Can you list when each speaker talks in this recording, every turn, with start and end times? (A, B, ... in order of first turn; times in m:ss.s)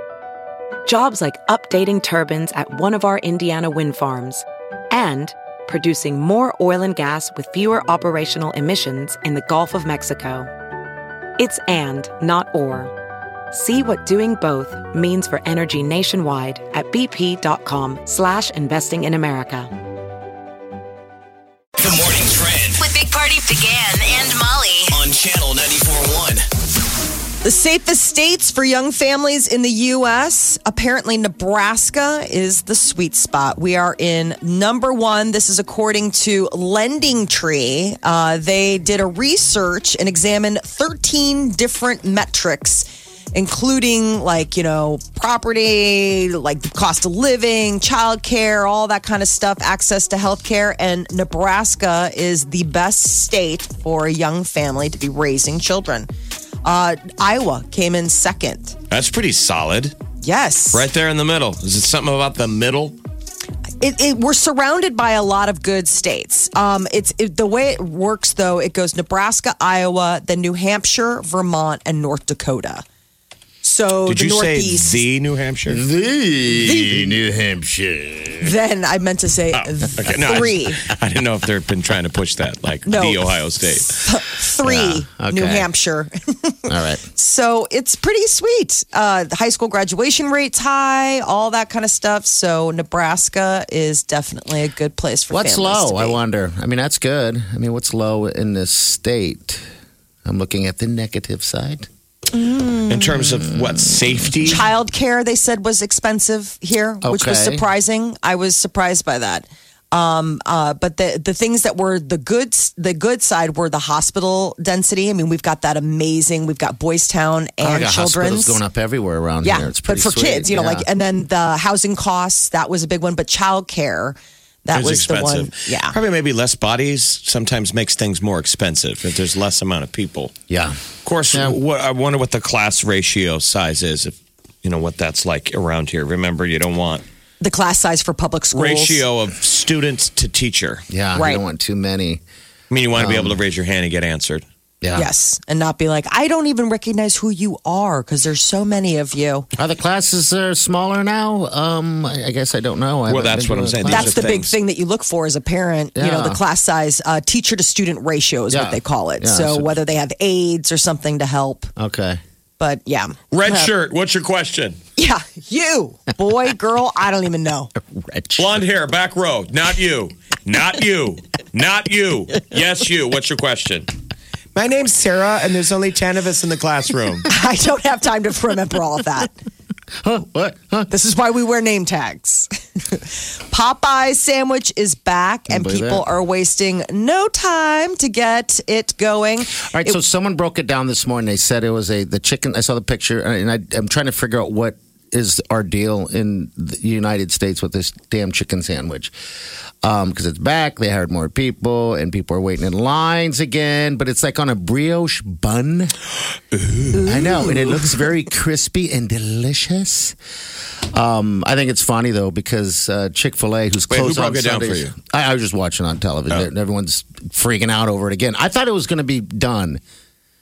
0:00.8-0:04.4 A
0:04.9-0:10.4 A
0:11.4-0:12.9 A
0:13.5-0:19.6 A
0:21.8-0:22.9 B
0:22.8-0:25.0 C
0:24.9-0:26.4 B
0:27.4-0:56.1 D
0:56.6-0:58.8 D
0:58.9-1:00.0 E
1:00.2-1:00.8 D
1:00.7-1:03.0 E
1:03.8-1:12.8 D
1:13.6-1:15.0 D
1:14.0-1:15.8 E
1:15.7-1:18.6 F
1:16.6-1:17.2 D
1:18.4-1:20.8 D
1:19.5-1:24.1 E
1:22.8-1:23.4 D
1:24.0-1:36.2 D
1:24.6-1:25.7 F
1:26.7-1:27.0 F
1:35.3-1:39.6 F
1:40.2-1:41.9 F
1:42.3-1:43.2 D
1:42.9-1:44.6 E
1:43.2-1:44.6 F
1:44.4-1:58.6 D
1:47.0-1:47.6 F
1:57.6-2:00.8 F
1:59.4-2:06.0 D
2:04.7-2:10.3 E
2:10.5-2:10.8 F
2:11.0-2:17.0 E
2:11.3-2:11.6 F
2:17.4-2:19.0 D
2:18.5-2:20.8 E
2:20.9-2:22.2 F
2:21.1-2:21.4 D
2:22.7-2:24.4 E
2:22.9-2:23.4 F
2:24.8-2:25.1 F
2:24.9-2:29.5 D
2:29.6-2:34.3 F
2:33.1-2:34.5 E
2:33.9-2:41.7 D
2:35.9-2:36.4 F
2:38.5-2:39.8 F
2:41.8-2:42.2 F
2:42.6-2:43.7 D
2:43.3-2:44.8 E
2:45.0-2:47.7 D
2:47.9-2:48.5 F
2:48.4-2:53.9 E
2:54.5-2:57.3 E
2:57.3-2:59.3 D
3:00.0-3:00.9 F
3:00.9-3:10.0 D
3:05.5-3:06.0 F
3:09.5-3:19.1 F
3:19.8-3:25.9 F
3:26.5-3:27.2 E
3:26.9-3:30.2 F
3:30.9-3:39.8 F
3:33.9-3:34.9 E